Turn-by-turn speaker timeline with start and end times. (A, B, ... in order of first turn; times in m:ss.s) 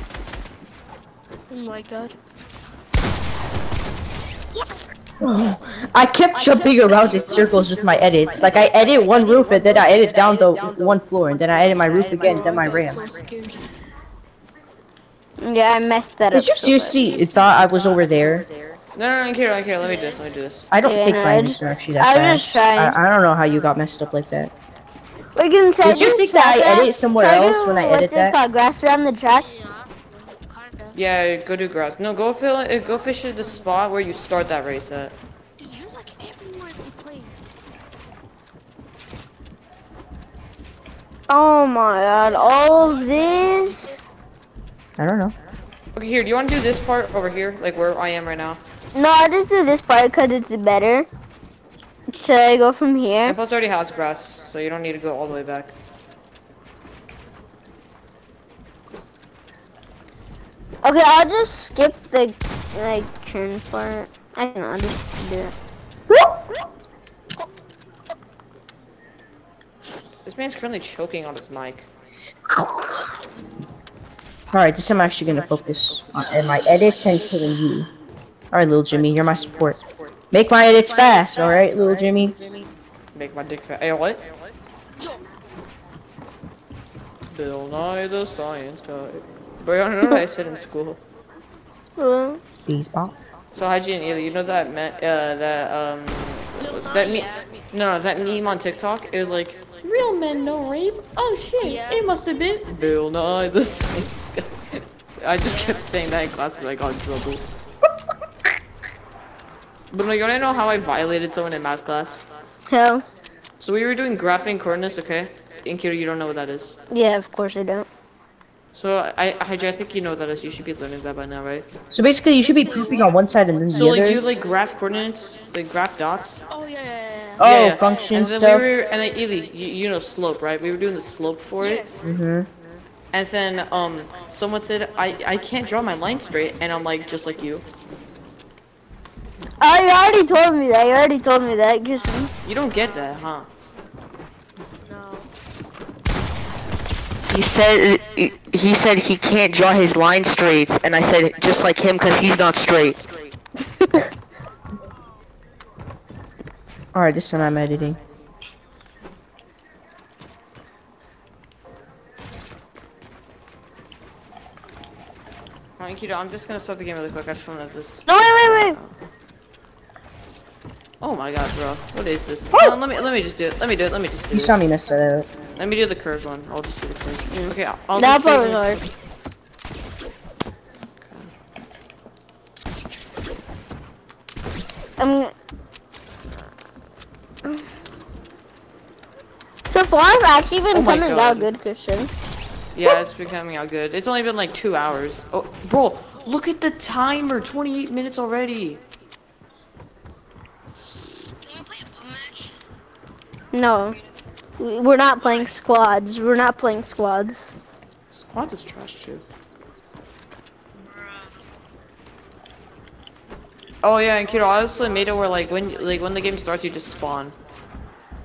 0:01.5-0:02.1 A
0:05.2-0:13.0 B
0:12.0-0:13.8 A
0:15.4-0:17.0 C
0:16.3-0:18.5 B
0:18.9-0:20.7 D
0:19.8-0:20.3 A
0:20.7-0:24.5 B
0:20.8-0:23.0 C
0:25.3-0:29.5 C
0:25.8-0:28.4 B
0:29.4-0:31.0 A
0:30.9-0:35.1 D
0:35.6-0:37.5 A
0:41.3-0:44.0 C
0:42.2-0:44.0 A
0:45.0-0:45.3 B
0:45.9-0:48.6 D
0:48.9-0:51.1 C
0:52.1-0:53.4 C
0:53.2-0:55.7 D
1:00.8-1:05.5 C
1:06.1-1:06.4 B
1:10.2-1:11.9 D
1:14.5-1:17.9 B
1:18.5-1:22.4 B
1:23.1-1:24.2 D
1:25.0-1:25.3 A
1:27.3-1:31.0 D
1:32.0-1:32.4 C
1:32.7-1:33.1 B
1:33.5-1:47.4 D
1:36.6-1:37.4 A
1:41.6-1:42.1 A
1:49.9-1:52.2 D
1:52.7-1:53.0 C
1:53.6-1:56.8 D
1:56.9-1:57.9 C
1:58.7-2:01.7 D
2:01.9-2:04.2 B
2:02.6-2:03.0 A
2:03.7-2:06.4 D
2:06.5-2:07.4 A
2:07.4-2:08.6 B
2:07.4-2:11.8 D
2:11.6-2:12.1 A
2:12.0-2:12.5 B
2:13.1-2:17.6 D
2:19.6-2:22.3 C
2:22.4-2:23.5 D
2:24.8-2:25.3 A
2:27.3-2:28.0 D
2:27.3-2:33.0 E
2:29.0-2:30.2 D
2:30.7-2:32.0 D
2:36.9-2:38.0 B
2:45.8-2:49.0 D
2:48.1-2:48.8 C
2:51.0-2:54.5 D
2:54.3-2:55.3 B
2:55.5-2:58.9 D
2:57.3-2:58.8 C
3:01.0-3:01.3 D
3:05.0-3:05.3 C
3:09.7-3:12.1 C
3:10.7-3:11.5 D
3:12.7-3:18.8 D
3:21.0-3:22.6 A
3:23.5-3:24.0 C
3:24.6-3:27.6 C
3:28.1-3:29.2 D
3:30.8-3:31.4 A
3:33.8-3:37.3 D